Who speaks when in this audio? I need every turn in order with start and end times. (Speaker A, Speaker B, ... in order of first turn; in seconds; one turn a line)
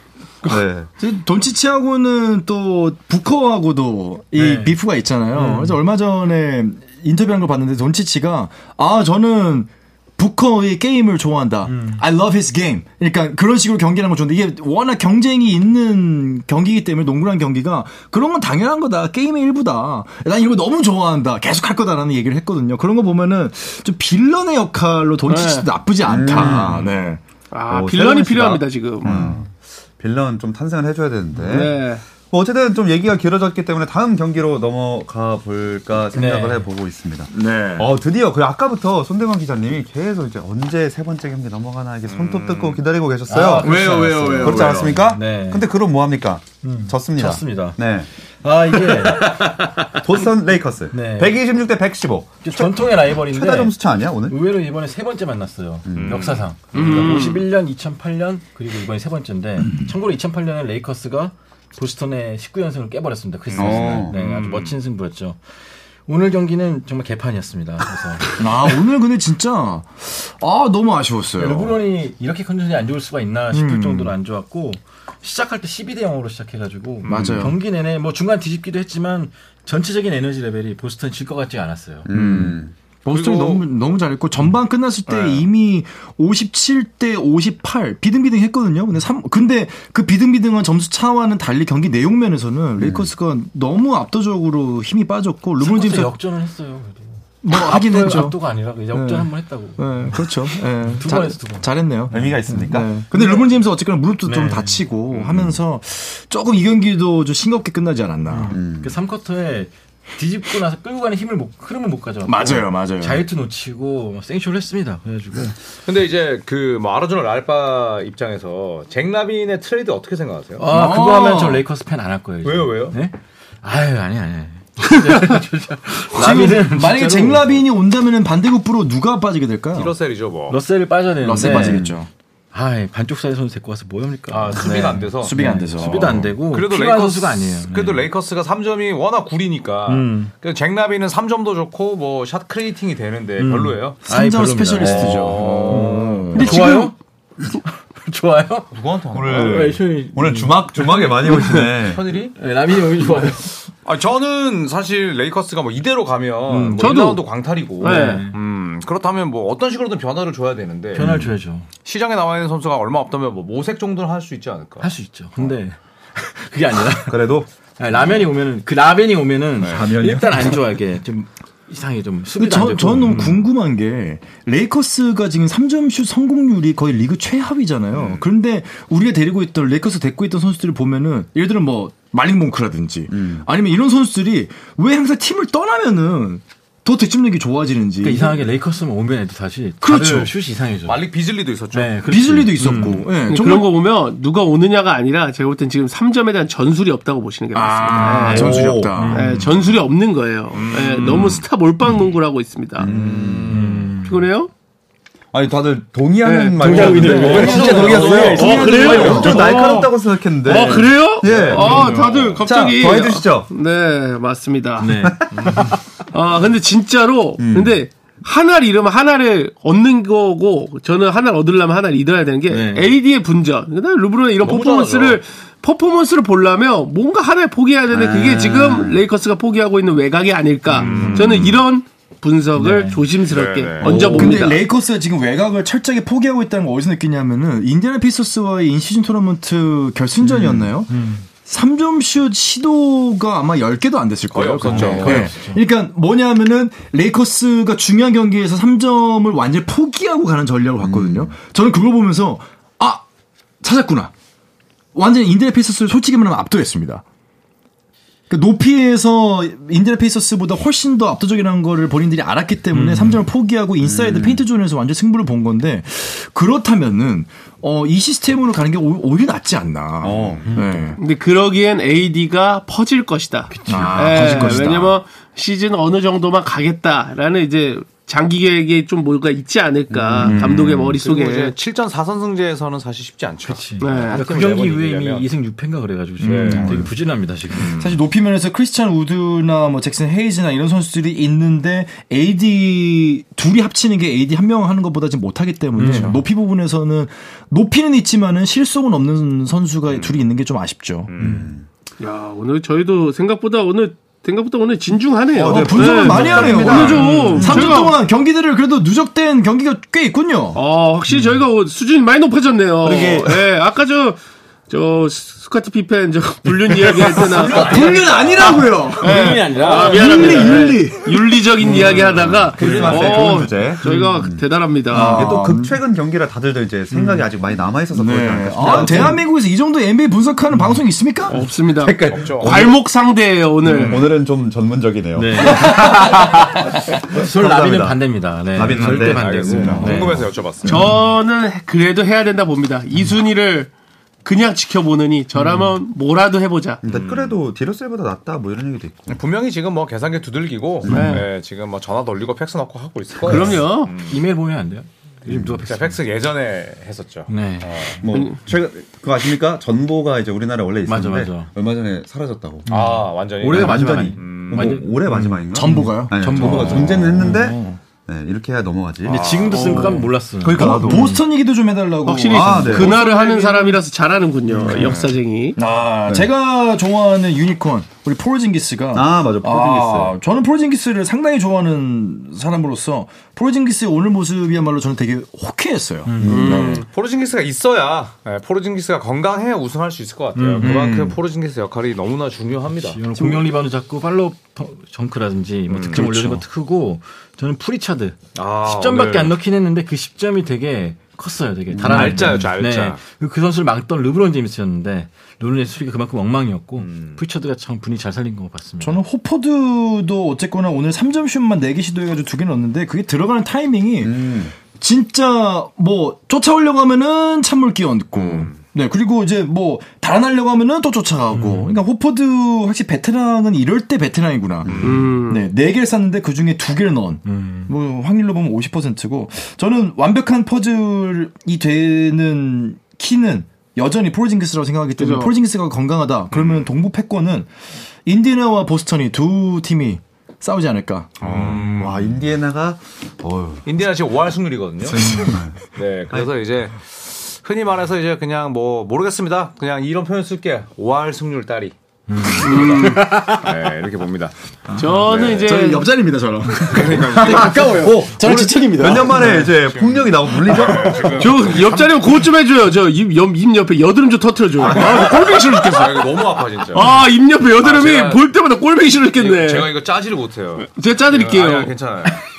Speaker A: 0.4-0.9
Speaker B: 1.0-27.2
Speaker C: 4.3-4.8
Speaker C: 5.3-5.8
Speaker C: 11.7-12.0
Speaker D: 25.3-25.7
Speaker A: 26.1-26.9
Speaker C: 26.3-26.8
Speaker D: 27.5-29.3
Speaker A: 27.7-48.1
Speaker C: 29.1-29.4
Speaker D: 31.4-32.0
Speaker C: 36.1-36.7
Speaker B: 37.3-37.9
Speaker E: 42.1-42.8
Speaker C: 43.3-45.7
Speaker B: 43.6-45.1
Speaker C: 46.6-47.8
Speaker C: 48.4-49.5
Speaker A: 50.0-54.4
Speaker C: 50.9-51.4
Speaker C: 52.4-65.4
Speaker A: 55.9-56.4
Speaker E: 55.9-57.4
Speaker D: 56.7-57.4
Speaker E: 63.5-64.8
Speaker A: 63.6-64.1
Speaker C: 66.1-68.4
Speaker B: 68.4-71.8
Speaker C: 71.4-82.1
Speaker B: 73.5-74.2
Speaker E: 77.0-77.5
Speaker B: 77.1-77.6
Speaker A: 82.1-82.7
Speaker B: 82.1-96.1
Speaker E: 83.1-83.7
Speaker E: 85.1-85.5
Speaker A: 92.8-93.1
Speaker C: 95.6-103.5
Speaker B: 97.4-98.4
Speaker B: 98.9-108.6
Speaker A: 102.1-103.0
Speaker C: 104.2-104.8
Speaker E: 105.1-105.5
Speaker C: 108.3-115.6
Speaker A: 108.5-109.0
Speaker B: 112.3-113.2
Speaker E: 115.8-120.7
Speaker C: 120.6-127.6
Speaker B: 120.7-121.6
Speaker E: 122.4-123.0
Speaker B: 126.2-129.9
Speaker E: 129.7-130.6
Speaker C: 130.5-131.9
Speaker B: 131.2-132.1
Speaker A: 131.4-132.0
Speaker C: 132.5-138.1
Speaker E: 134.3-144.0
Speaker B: 134.6-136.3
Speaker C: 139.9-140.3
Speaker C: 143.4-146.9
Speaker B: 144.1-146.8
Speaker E: 144.8-146.6
Speaker D: 146.4-146.9
Speaker C: 147.6-148.7
Speaker E: 148.7-149.8
Speaker A: 149.1-152.0
Speaker C: 149.3-151.7
Speaker E: 151.6-152.4
Speaker C: 152.4-153.6
Speaker E: 153.8-161.1
Speaker B: 156.5-157.0
Speaker D: 156.8-157.2
Speaker D: 157.8-158.3
Speaker C: 157.8-158.4
Speaker C: 160.9-161.7
Speaker B: 161.0-161.2
Speaker E: 161.8-164.9
Speaker C: 164.8-167.3
Speaker A: 167.1-167.5
Speaker C: 167.8-173.5
Speaker E: 169.6-169.9
Speaker A: 169.6-170.6
Speaker B: 172.4-188.4
Speaker E: 177.9-178.3
Speaker A: 183.1-183.5
Speaker C: 188.0-191.0
Speaker B: 189.8-190.3
Speaker E: 190.9-191.9
Speaker C: 191.7-193.1
Speaker B: 192.1-193.7
Speaker D: 193.3-202.9
Speaker B: 197.5-199.4
Speaker A: 198.3-199.0
Speaker C: 198.9-199.5
Speaker E: 200.5-201.4
Speaker A: 202.8-203.8
Speaker E: 202.8-203.9
Speaker C: 203.5-204.2
Speaker D: 204.0-204.5
Speaker A: 205.3-213.5
Speaker D: 206.2-215.0
Speaker C: 206.6-209.1
Speaker B: 206.6-209.5
Speaker E: 207.2-209.3
Speaker E: 211.2-212.4
Speaker C: 211.5-212.0
Speaker C: 214.8-215.8
Speaker A: 215.0-215.7
Speaker E: 215.3-215.7
Speaker D: 216.1-234.6
Speaker A: 217.4-217.8
Speaker C: 222.5-223.0
Speaker E: 224.4-225.2
Speaker A: 227.9-229.0
Speaker E: 230.7-231.6
Speaker C: 230.7-231.6
Speaker C: 232.6-233.1
Speaker E: 233.3-234.2
Speaker B: 233.8-253.0
Speaker A: 233.8-234.4
Speaker A: 240.3-240.6
Speaker C: 240.9-241.3
Speaker E: 244.3-245.3
Speaker C: 244.6-245.6
Speaker A: 250.8-251.3
Speaker B: 253.6-254.1
Speaker B: 254.9-257.0
Speaker B: 258.3-271.0
Speaker C: 262.7-263.3
Speaker A: 263.8-264.4
Speaker A: 270.0-270.8
Speaker D: 271.0-281.6
Speaker C: 273.5-274.7
Speaker B: 273.7-275.0
Speaker A: 279.9-280.5
Speaker B: 280.2-281.0
Speaker E: 280.8-285.3
Speaker C: 283.4-287.8
Speaker D: 283.8-284.2
Speaker E: 286.2-286.9
Speaker B: 286.2-286.9
Speaker A: 286.5-286.9
Speaker E: 287.6-288.0
Speaker B: 287.8-301.1
Speaker C: 295.8-296.2
Speaker E: 295.9-296.2
Speaker E: 299.9-300.2
Speaker E: 301.1-301.5
Speaker A: 301.2-301.7
Speaker D: 302.0-308.0
Speaker A: 305.3-307.9
Speaker B: 305.4-310.6
Speaker C: 306.9-307.6
Speaker D: 310.5-325.4
Speaker C: 311.1-311.4
Speaker A: 312.8-313.3
Speaker C: 316.9-318.1
Speaker B: 317.1-322.4
Speaker C: 319.0-320.8
Speaker A: 321.6-329.2
Speaker E: 322.4-323.4
Speaker C: 322.6-323.2
Speaker C: 323.8-324.1
Speaker B: 324.9-325.8
Speaker C: 326.9-327.2
Speaker B: 327.9-331.4
Speaker C: 328.6-329.1
Speaker C: 330.5-330.8
Speaker D: 331.3-334.1
Speaker A: 331.8-332.8
Speaker E: 332.1-332.6
Speaker A: 333.6-340.9
Speaker C: 333.7-334.0
Speaker C: 335.1-340.9
Speaker E: 338.6-340.9
Speaker D: 340.7-343.7
Speaker D: 344.2-346.8
Speaker C: 345.4-345.7
Speaker A: 346.8-349.2
Speaker E: 346.9-347.4
Speaker E: 349.1-354.2
Speaker A: 350.9-351.2
Speaker D: 350.9-351.2
Speaker D: 353.2-353.9
Speaker C: 353.3-356.0
Speaker A: 355.3-355.6
Speaker E: 355.7-358.0
Speaker C: 357.3-358.0
Speaker A: 358.0-362.7
Speaker D: 358.1-358.4
Speaker C: 360.9-361.5
Speaker C: 362.7-367.8
Speaker E: 362.7-364.8
Speaker A: 363.5-369.3
Speaker B: 365.5-367.5
Speaker C: 369.1-371.2
Speaker E: 369.1-370.0
Speaker A: 370.4-371.1
Speaker B: 370.5-373.1
Speaker D: 372.1-375.6
Speaker A: 372.3-373.0
Speaker C: 372.9-373.8
Speaker A: 374.7-374.9
Speaker E: 374.7-375.1
Speaker B: 375.6-386.8
Speaker A: 378.9-380.1
Speaker C: 386.1-386.5
Speaker A: 386.2-386.7
Speaker D: 386.3-386.9
Speaker E: 386.8-393.0
Speaker C: 390.4-390.8
Speaker B: 390.6-391.1
Speaker C: 392.7-409.0
Speaker E: 395.7-396.1
Speaker B: 395.9-396.4
Speaker E: 398.4-399.4
Speaker A: 401.7-402.2
Speaker E: 401.8-403.0
Speaker E: 406.8-407.2
Speaker B: 408.8-437.5
Speaker A: 414.0-414.5
Speaker E: 418.2-418.6
Speaker C: 421.3-421.8
Speaker A: 424.6-425.0
Speaker E: 424.7-425.1
Speaker D: 424.8-425.5
Speaker C: 427.2-427.7
Speaker D: 435.0-435.3
Speaker E: 436.3-436.7
Speaker B: 438.1-441.2
Speaker E: 441.2-442.1
Speaker A: 441.2-443.6
Speaker E: 443.6-451.7
Speaker A: 444.9-445.6
Speaker C: 452.1-453.5
Speaker E: 452.3-454.3
Speaker D: 452.4-453.1
Speaker D: 454.8-455.9
Speaker E: 454.9-455.5
Speaker B: 455.4-459.5
Speaker E: 456.6-457.8
Speaker A: 456.9-461.3
Speaker E: 459.0-462.1
Speaker D: 461.1-469.7
Speaker E: 464.6-467.0
Speaker E: 467.6-468.2
Speaker E: 469.2-472.2
Speaker D: 470.6-471.7